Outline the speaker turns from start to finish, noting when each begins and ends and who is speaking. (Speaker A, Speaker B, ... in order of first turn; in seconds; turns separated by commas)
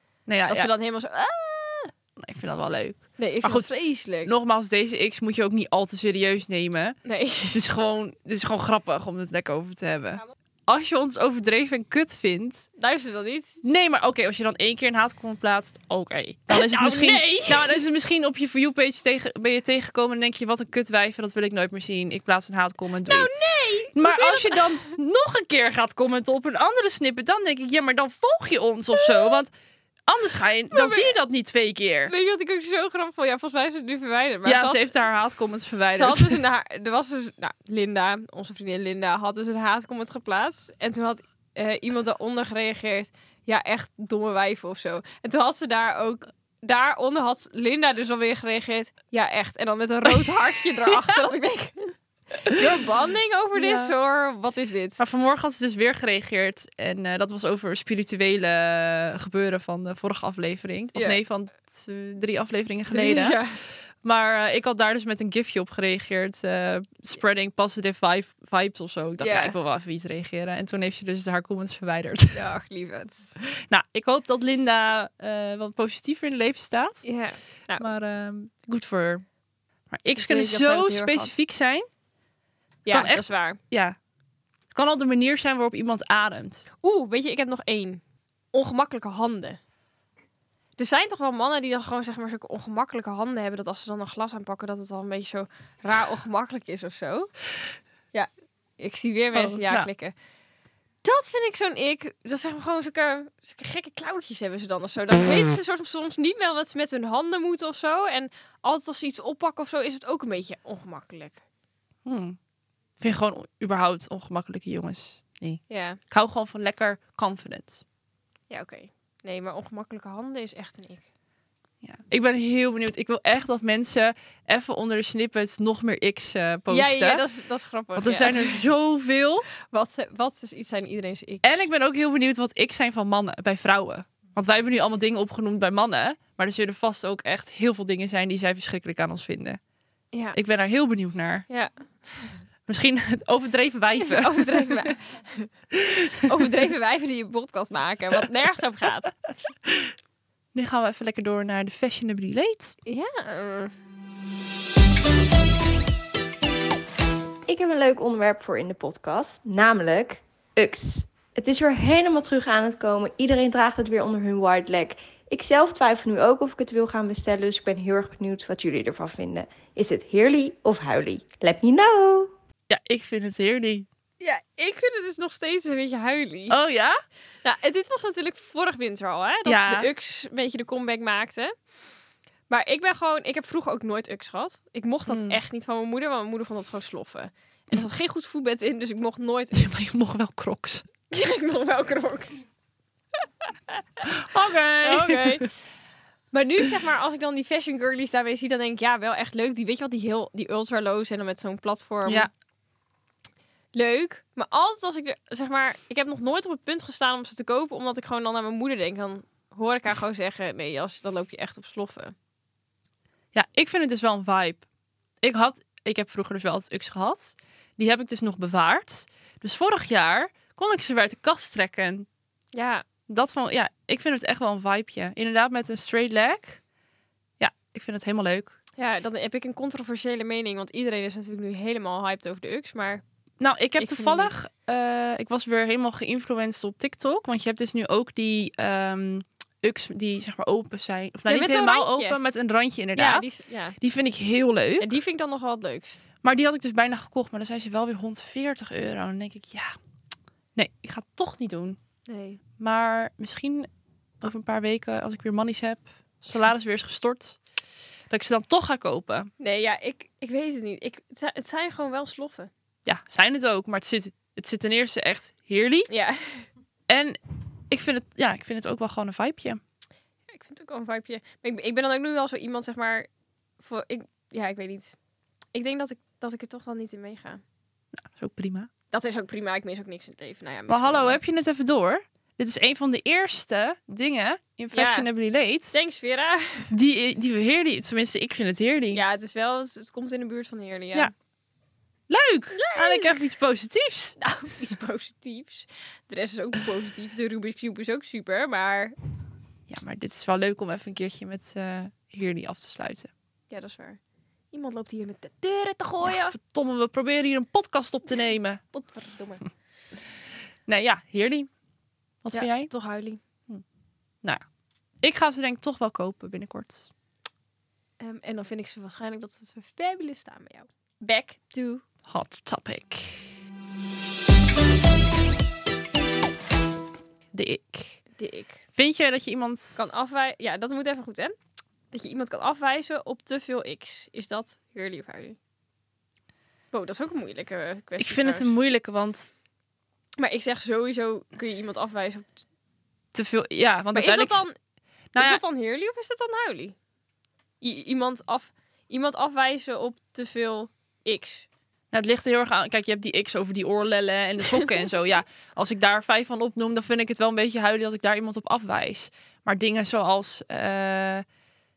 Speaker A: 0.3-0.7, Speaker B: 0.5-1.9, Speaker A: 2.2-3.7, Speaker B: 3.2-4.3, Speaker A: 4.2-12.7, Speaker B: 7.0-7.6, Speaker B: 12.8-13.6, Speaker A: 13.6-23.3, Speaker B: 16.5-17.8, Speaker B: 23.1-24.9, Speaker A: 23.9-29.5, Speaker B: 28.9-29.4, Speaker A: 30.1-32.1, Speaker B: 30.7-31.2, Speaker B: 32.1-34.9, Speaker A: 34.5-36.4, Speaker B: 35.9-55.0, Speaker A: 53.5-53.9, Speaker A: 55.0-63.4, Speaker B: 62.9-63.6, Speaker A: 64.0-72.4, Speaker B: 69.2-69.6, Speaker B: 72.3-73.3, Speaker A: 73.5-77.1, Speaker B: 77.0-77.9, Speaker A: 77.8-79.2, Speaker A: 79.9-81.9, Speaker B: 80.2-81.3, Speaker B: 82.8-83.6, Speaker A: 82.9-84.0, Speaker A: 84.7-86.7, Speaker B: 86.8-88.0, Speaker B: 88.5-89.6, Speaker B: 90.8-97.3, Speaker B: 98.1-100.1, Speaker A: 99.3-99.9, Speaker B: 101.0-111.4, Speaker A: 112.0-112.4, Speaker A: 113.0-117.8, Speaker B: 115.7-116.0, Speaker B: 118.5-121.0, Speaker A: 121.8-127.2, Speaker B: 126.7-128.7, Speaker A: 128.0-129.5, Speaker B: 129.7-131.4, Speaker A: 131.4-139.6, Speaker B: 140.1-140.4, Speaker A: 140.3-141.5, Speaker B: 141.5-142.4, Speaker A: 142.7-144.9, Speaker B: 144.0-145.5, Speaker A: 145.8-146.2, Speaker B: 146.2-149.2, Speaker A: 150.5-152.8, Speaker B: 152.8-153.7, Speaker C: 157.5-172.3, Speaker A: 172.7-173.9, Speaker B: 174.2-176.6, Speaker A: 176.5-177.0, Speaker B: 177.4-181.5, Speaker A: 179.5-179.9, Speaker B: 182.5-189.6, Speaker A: 185.1-185.4, Speaker A: 189.5-190.8, Speaker B: 191.1-192.4, Speaker B: 193.4-194.0, Speaker A: 194.1-195.4, Speaker B: 194.8-195.6, Speaker B: 196.3-202.3, Speaker B: 203.7-212.2, Speaker A: 213.3-214.6, Speaker A: 215.2-222.1, Speaker B: 222.5-222.8, Speaker A: 223.1-226.6, Speaker A: 227.4-228.6, Speaker B: 228.8-233.0, Speaker A: 233.4-244.9, Speaker B: 233.8-234.3, Speaker B: 241.3-242.2, Speaker B: 243.0-243.8, Speaker B: 244.8-246.0, Speaker A: 246.2-249.7, Speaker A: 250.6-251.8, Speaker B: 252.1-252.4, Speaker A: 252.6-253.7, Speaker A: 254.2-257.4, Speaker A: 258.1-259.3, Speaker B: 259.4-262.5, Speaker A: 262.9-265.9, Speaker B: 265.9-266.5, Speaker A: 266.9-267.2, Speaker A: 267.7-269.6, Speaker B: 270.3-273.1, Speaker B: 273.6-274.9, Speaker B: 275.5-277.4, Speaker A: 278.1-278.7, Speaker B: 278.9-281.2, Speaker A: 280.7-285.8, Speaker B: 284.7-285.1, Speaker B: 285.7-286.7, Speaker A: 286.7-289.0, Speaker B: 288.9-291.1, Speaker A: 292.1-294.2, Speaker B: 292.5-293.2, Speaker B: 294.2-299.0, Speaker A: 299.7-303.1, Speaker B: 303.5-304.0, Speaker B: 304.5-306.4, Speaker A: 306.1-308.6, Speaker B: 308.7-309.4, Speaker A: 310.7-311.5, Speaker A: 312.2-312.7, Speaker B: 312.3-313.2, Speaker A: 315.0-316.9, Speaker B: 318.0-321.8, Speaker A: 322.1-323.4, Speaker A: 327.3-328.0, Speaker B: 328.2-328.6, Speaker A: 328.8-330.0, Speaker B: 329.8-331.4, Speaker B: 331.9-335.4, Speaker B: 336.7-338.5, Speaker A: 338.0-339.3, Speaker B: 340.2-342.4, Speaker A: 343.1-344.4, Speaker B: 343.9-344.6, Speaker A: 345.1-345.4, Speaker B: 345.1-346.8, Speaker B: 347.6-351.5, Speaker A: 351.9-361.2